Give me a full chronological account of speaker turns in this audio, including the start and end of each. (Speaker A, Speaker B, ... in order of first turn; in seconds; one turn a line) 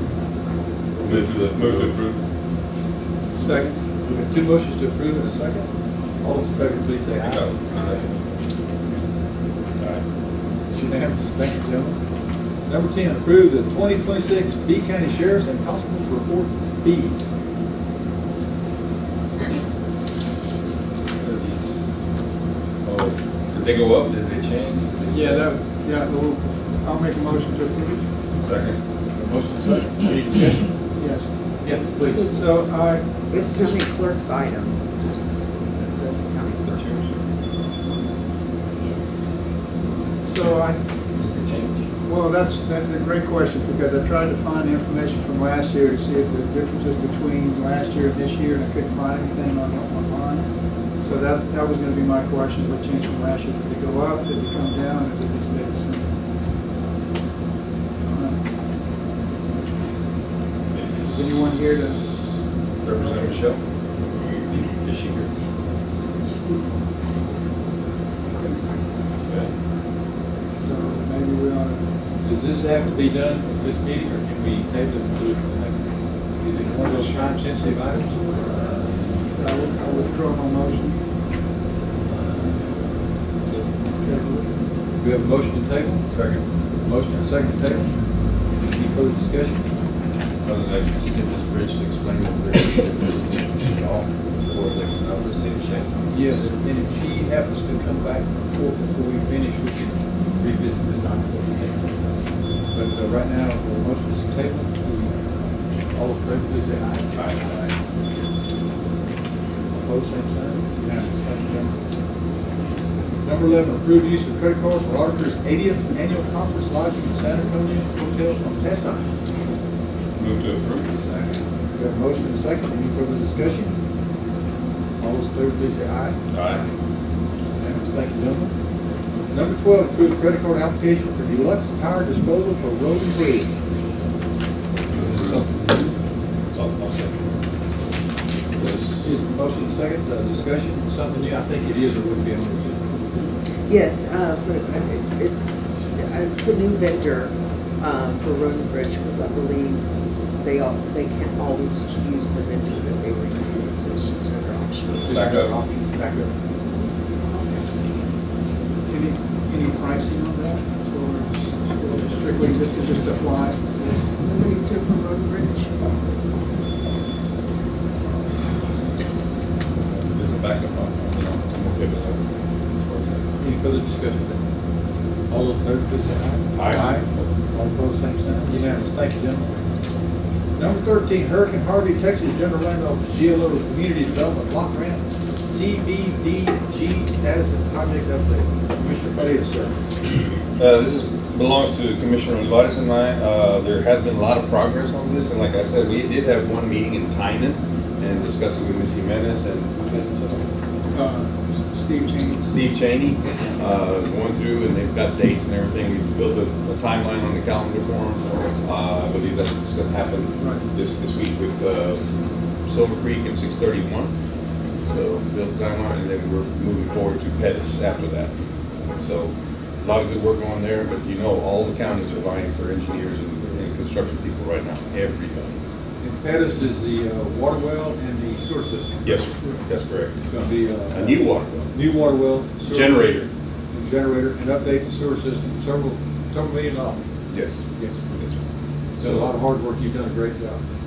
Speaker A: 0.2-1.3
Speaker B: 1.0-2.2
Speaker C: 3.3-3.8
Speaker D: 4.0-5.7
Speaker D: 6.2-8.0
Speaker B: 7.2-8.1
Speaker B: 9.8-10.0
Speaker D: 10.7-12.0
Speaker D: 12.7-17.3
Speaker B: 21.2-21.6
Speaker B: 22.8-25.5
Speaker C: 25.1-28.0
Speaker B: 28.4-28.8
Speaker D: 29.1-30.7
Speaker C: 31.0-31.3
Speaker D: 31.6-32.4
Speaker C: 32.3-33.8
Speaker A: 33.3-36.8
Speaker B: 36.7-37.1
Speaker C: 40.2-40.8
Speaker B: 41.1-41.8
Speaker C: 42.0-56.1
Speaker C: 58.0-58.4
Speaker B: 60.7-61.2
Speaker C: 61.1-62.0
Speaker B: 62.8-63.6
Speaker C: 63.0-63.3
Speaker B: 64.7-65.3
Speaker B: 69.2-69.5
Speaker C: 70.6-71.8
Speaker D: 72.2-75.8
Speaker D: 76.4-78.2
Speaker B: 76.8-77.3
Speaker C: 79.3-81.0
Speaker C: 84.0-84.5
Speaker D: 85.0-86.0
Speaker B: 86.1-86.4
Speaker D: 86.8-87.9
Speaker D: 88.6-89.6
Speaker B: 90.4-96.4
Speaker D: 96.1-102.2
Speaker D: 102.7-105.2
Speaker D: 105.9-107.2
Speaker B: 107.1-107.7
Speaker D: 109.7-111.7
Speaker D: 113.2-119.1
Speaker B: 120.2-120.9
Speaker D: 121.0-123.7
Speaker D: 125.0-126.2
Speaker B: 126.3-126.7
Speaker D: 127.6-128.5
Speaker D: 129.3-133.5
Speaker B: 134.9-135.5
Speaker D: 134.9-135.9
Speaker B: 136.5-137.3
Speaker B: 138.6-138.9
Speaker D: 138.6-142.8
Speaker A: 143.7-149.9
Speaker A: 150.4-156.2
Speaker B: 155.1-155.6
Speaker D: 155.1-156.3
Speaker A: 157.3-157.6
Speaker C: 158.9-164.1
Speaker A: 164.2-165.6
Speaker B: 169.9-173.3
Speaker D: 173.4-174.4
Speaker D: 175.3-179.5
Speaker B: 176.5-177.2
Speaker D: 180.6-189.7
Speaker B: 190.6-200.4
Speaker C: 200.9-202.4
Speaker B: 202.4-212.0
Speaker C: 210.4-210.7
Speaker B: 212.7-214.1
Speaker B: 214.8-218.3
Speaker B: 218.8-225.6
Speaker D: 226.0-229.2
Speaker B: 229.0-230.2
Speaker D: 230.3-233.1
Speaker B: 230.9-231.8
Speaker B: 232.7-233.3
Speaker D: 233.7-237.0
Speaker B: 237.3-238.4
Speaker D: 237.8-238.0
Speaker D: 239.0-240.6
Speaker B: 239.0-239.3